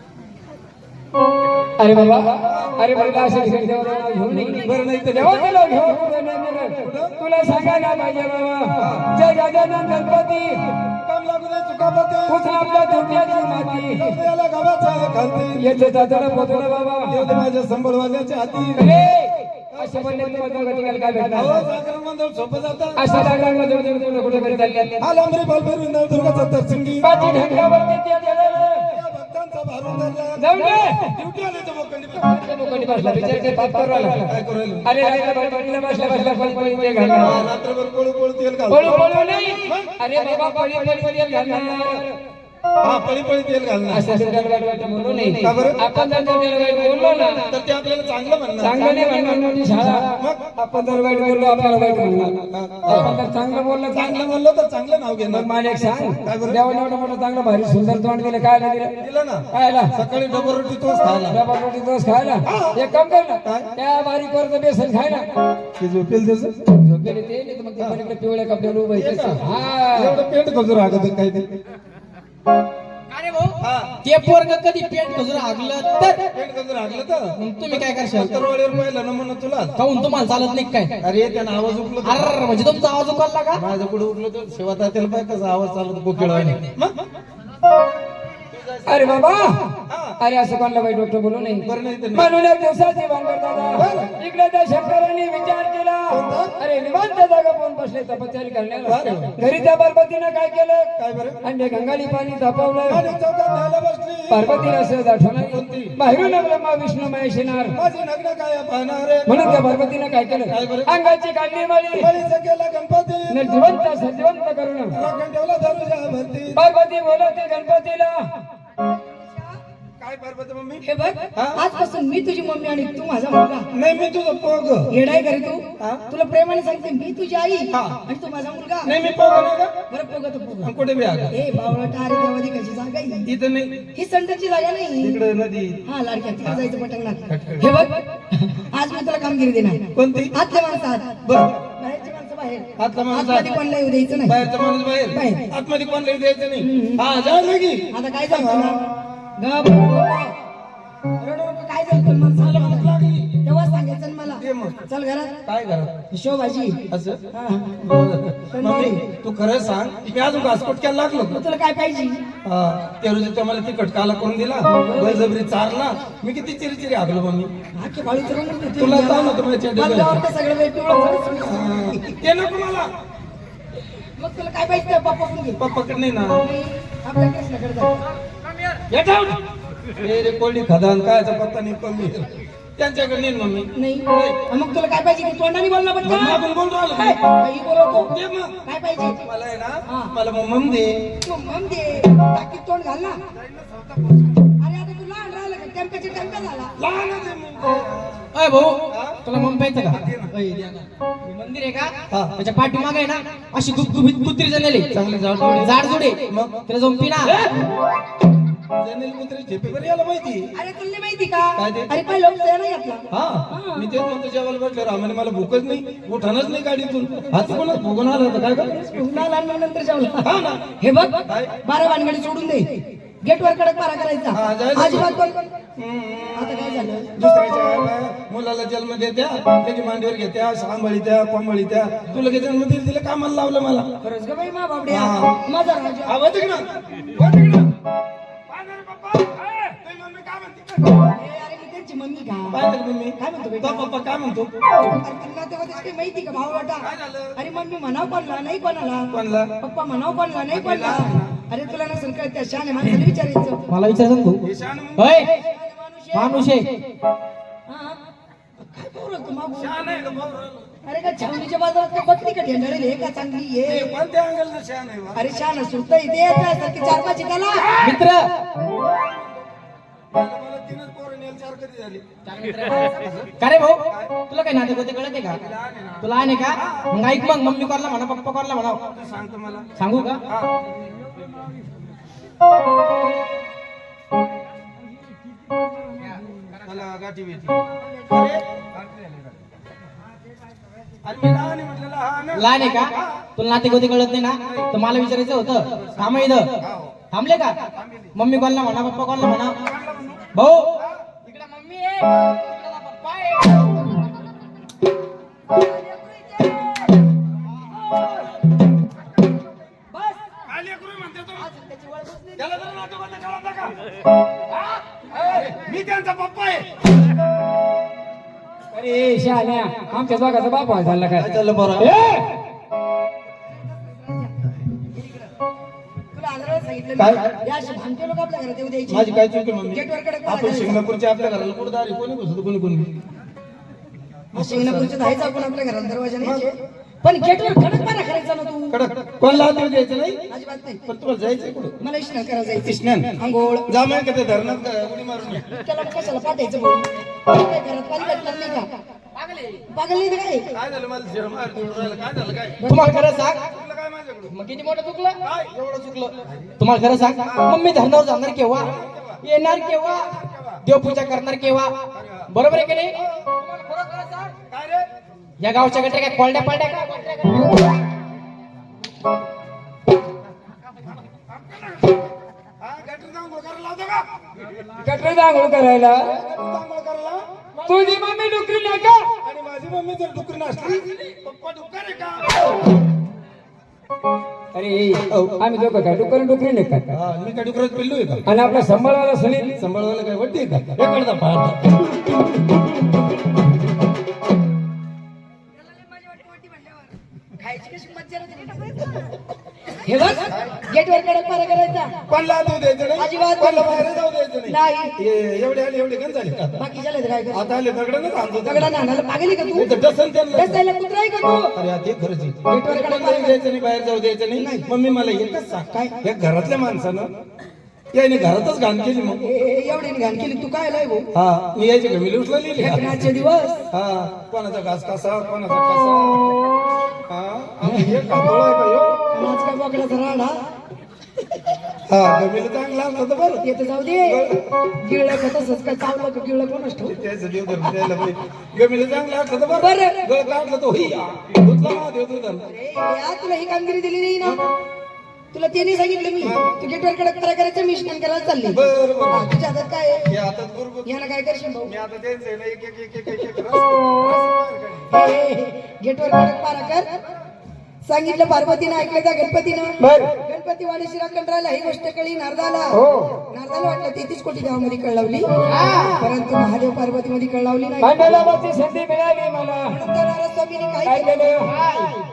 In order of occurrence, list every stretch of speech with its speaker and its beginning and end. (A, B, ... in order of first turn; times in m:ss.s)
0:01.8-0:10.7 A
0:02.4-0:03.5 B
0:04.6-0:05.8 B
0:06.8-0:07.2 B
0:08.8-0:09.1 B
0:11.0-0:12.5 B
0:12.3-0:14.1 A
0:13.9-0:15.8 B
0:15.6-0:17.2 A
0:17.1-0:19.0 B
0:18.8-0:21.6 A
0:21.3-0:23.2 B
0:23.0-0:25.0 A
0:25.0-0:27.1 B
0:27.0-0:28.9 A
0:28.9-0:30.4 B
0:30.4-0:31.1 A
0:31.0-0:32.3 B
0:32.3-0:34.3 A
0:33.1-0:33.3 B
0:34.2-0:34.9 B
0:34.8-0:37.4 A
0:37.1-0:40.0 B
0:38.7-0:42.2 A
0:42.8-0:44.2 B
0:43.9-0:47.5 A
0:45.4-0:45.8 B
0:47.4-0:49.0 B
0:48.6-0:54.2 A
0:50.2-0:50.6 B
0:51.9-0:53.2 B
0:53.9-0:55.5 B
0:55.3-0:59.0 A
0:56.2-0:56.6 B
0:59.0-1:01.4 B
0:59.5-0:59.9 A
1:01.3-1:05.2 A
1:02.4-1:02.8 B
1:03.4-1:03.7 B
1:05.8-1:06.5 B
1:06.7-1:10.2 A
1:08.9-1:09.4 B
1:09.9-1:11.5 B
1:13.1-1:16.2 C
1:13.6-1:14.0 B
1:16.0-1:19.8 B
1:17.4-1:18.3 C
1:19.8-1:20.9 C
1:21.0-1:22.3 B
1:22.0-1:23.6 C
1:23.5-1:26.9 B
1:28.5-1:29.2 B
1:28.9-1:29.6 A
1:29.9-1:30.2 B
1:30.2-1:40.9 A
1:31.6-1:32.3 B
1:33.7-1:34.1 B
1:36.1-1:36.6 B
1:38.8-1:39.3 B
1:41.0-1:41.4 B
1:41.4-1:43.0 A
1:42.9-1:44.5 B
1:44.3-1:47.8 A
1:45.4-1:45.9 B
1:47.7-1:49.6 B
1:49.3-1:52.1 A
1:50.5-1:50.9 B
1:52.0-1:53.5 B
1:53.3-1:55.0 A
1:54.9-1:56.6 B
1:56.6-1:58.2 A
1:58.8-1:59.6 D
2:00.0-2:00.8 B
2:00.8-2:03.7 D
2:01.3-2:01.6 B
2:03.7-2:04.9 B
2:04.9-2:09.0 D
2:07.7-2:08.0 B
2:08.8-2:09.7 B
2:09.9-2:10.7 D
2:10.6-2:11.4 B
2:11.3-2:13.2 D
2:13.2-2:13.8 B
2:13.9-2:15.2 D
2:15.0-2:15.8 B
2:15.8-2:24.4 D
2:17.3-2:17.7 B
2:19.9-2:20.3 B
2:22.8-2:23.6 B
2:24.2-2:29.1 B
2:25.1-2:25.4 D
2:26.6-2:27.0 D
2:27.9-2:28.8 D
2:29.4-2:30.3 D
2:31.2-2:35.3 D
2:32.4-2:33.4 B
2:34.4-2:34.8 B
2:35.4-2:35.9 B
2:36.1-2:37.8 D
2:36.9-2:37.2 B
2:37.8-2:41.4 B
2:38.5-2:39.0 D
2:41.3-2:42.2 D
2:42.4-2:47.5 B
2:44.8-2:45.3 D
2:47.8-2:52.1 D
2:48.8-2:50.2 B
2:51.4-2:52.9 B
2:54.2-2:55.6 D
2:55.6-2:56.4 B
2:56.4-2:57.9 D
2:58.9-2:59.4 B
3:00.0-3:04.4 B
3:03.7-3:08.1 D
3:06.0-3:07.2 B
3:08.1-3:08.6 B
3:08.6-3:09.2 D
3:09.2-3:10.9 B
3:09.9-3:10.1 D
3:11.2-3:13.2 D
3:13.3-3:14.4 B
3:14.6-3:16.7 D
3:16.8-3:18.3 B
3:18.3-3:24.9 C
3:18.9-3:19.2 B
3:19.9-3:20.3 B
3:24.9-3:26.6 B
3:25.5-3:27.5 C
3:28.8-3:30.4 B
3:30.5-3:33.9 D
3:31.6-3:31.9 B
3:33.1-3:38.7 B
3:38.6-3:45.5 D
3:40.2-3:40.6 B
3:41.3-3:41.5 B
3:44.3-3:45.1 B
3:45.8-3:53.9 B
3:46.4-3:47.1 D
3:54.0-3:56.5 D
3:54.9-3:55.4 B
3:56.0-3:57.7 B
3:58.5-4:01.0 B
4:01.1-4:02.6 D
4:02.5-4:04.5 B
4:03.2-4:03.9 D
4:04.8-4:13.6 D
4:06.8-4:07.4 B
4:09.1-4:09.5 B
4:10.5-4:11.4 B
4:13.7-4:14.4 C
4:14.4-4:15.2 B
4:15.0-4:15.3 C
4:15.2-4:16.5 D
4:16.1-4:16.7 C
4:17.7-4:18.0 D
4:18.7-4:20.0 D
4:19.5-4:20.7 B
4:20.8-4:23.9 D
4:23.6-4:25.2 B
4:25.1-4:27.8 D
4:27.8-4:28.2 C
4:28.8-4:29.2 B
4:30.1-4:32.0 B
4:32.2-4:35.4 C
4:32.8-4:33.3 B
4:33.9-4:34.2 B
4:35.3-4:36.9 B
4:36.0-4:38.8 C
4:38.9-4:39.7 B
4:39.8-4:40.2 C
4:46.6-4:49.3 B
4:51.0-4:53.3 B
4:52.3-4:56.5 C
4:54.4-4:54.7 B
4:55.6-4:57.0 B
4:57.1-4:57.6 C
4:57.7-4:58.2 B
4:58.1-4:59.5 C
4:59.6-5:00.3 B
5:00.3-5:00.7 C
5:01.2-5:03.7 C
5:05.5-5:06.8 D
5:09.9-5:10.3 D
5:10.4-5:11.5 B
5:11.4-5:12.5 D
5:12.4-5:13.8 B
5:15.2-5:16.7 B
5:18.7-5:21.3 A
5:21.2-5:21.9 B
5:21.8-5:22.2 A
5:23.8-5:24.3 D
5:26.1-5:29.2 D
5:27.0-5:27.2 B
5:28.9-5:32.9 B
5:29.7-5:30.8 D
5:34.3-5:34.9 B
5:34.3-5:38.8 D
5:38.7-5:40.2 B
5:40.3-5:40.8 D
5:40.9-5:41.8 B
5:41.8-5:43.7 D
5:42.6-5:45.4 B
5:45.4-5:48.7 D
5:48.0-5:48.6 B
5:49.2-5:49.6 C
5:49.7-5:50.5 D
5:50.5-5:52.6 B
5:52.6-5:53.2 D
5:52.7-5:53.4 C
5:53.4-5:54.3 B
5:54.3-5:58.7 C
5:55.2-5:55.5 B
5:57.2-5:57.6 B
5:58.5-5:59.2 B
5:59.2-6:01.7 C
5:59.8-6:00.6 B
6:01.9-6:02.3 B
6:02.3-6:04.3 C
6:03.0-6:03.2 B
6:04.5-6:04.9 B
6:05.4-6:07.6 C
6:11.3-6:11.9 B
6:12.6-6:14.0 B
6:14.8-6:16.0 A
6:16.1-6:17.2 B
6:17.6-6:19.1 A
6:19.2-6:22.5 B
6:24.5-6:26.9 A
6:25.1-6:25.4 B
6:26.9-6:28.2 B
6:28.2-6:29.5 A
6:29.6-6:31.8 B
6:35.6-6:39.1 D
6:39.7-6:41.9 D
6:42.1-6:46.6 B
6:43.0-6:43.9 D
6:44.4-6:44.9 D
6:46.6-6:47.5 D
6:47.3-6:48.7 B
6:48.4-6:49.7 D
6:49.5-6:50.6 B
6:50.3-6:51.5 D
6:51.5-6:57.1 B
6:52.4-6:53.4 D
6:54.4-6:54.7 D
6:57.9-6:59.2 B
6:59.2-7:01.0 D
7:01.1-7:03.0 B
7:02.6-7:03.6 D
7:03.7-7:06.3 B
7:07.1-7:09.0 B
7:07.7-7:08.1 D
7:09.1-7:10.3 D
7:11.9-7:13.4 B
7:13.4-7:14.3 D
7:14.0-7:14.3 B
7:14.8-7:17.0 D
7:16.9-7:22.4 B
7:19.5-7:20.1 D
7:22.5-7:24.4 D
7:25.3-7:30.1 D
7:26.2-7:26.5 B
7:28.5-7:29.3 B
7:30.1-7:30.9 B
7:30.8-7:31.7 D
7:31.6-7:34.9 B
7:34.9-7:36.9 D
7:37.8-7:48.3 D
7:39.8-7:40.1 A
7:42.7-7:43.1 A
7:45.4-7:46.0 C
7:47.8-7:49.7 A
7:49.7-7:51.5 D
7:50.8-7:51.5 A
7:51.4-7:51.9 C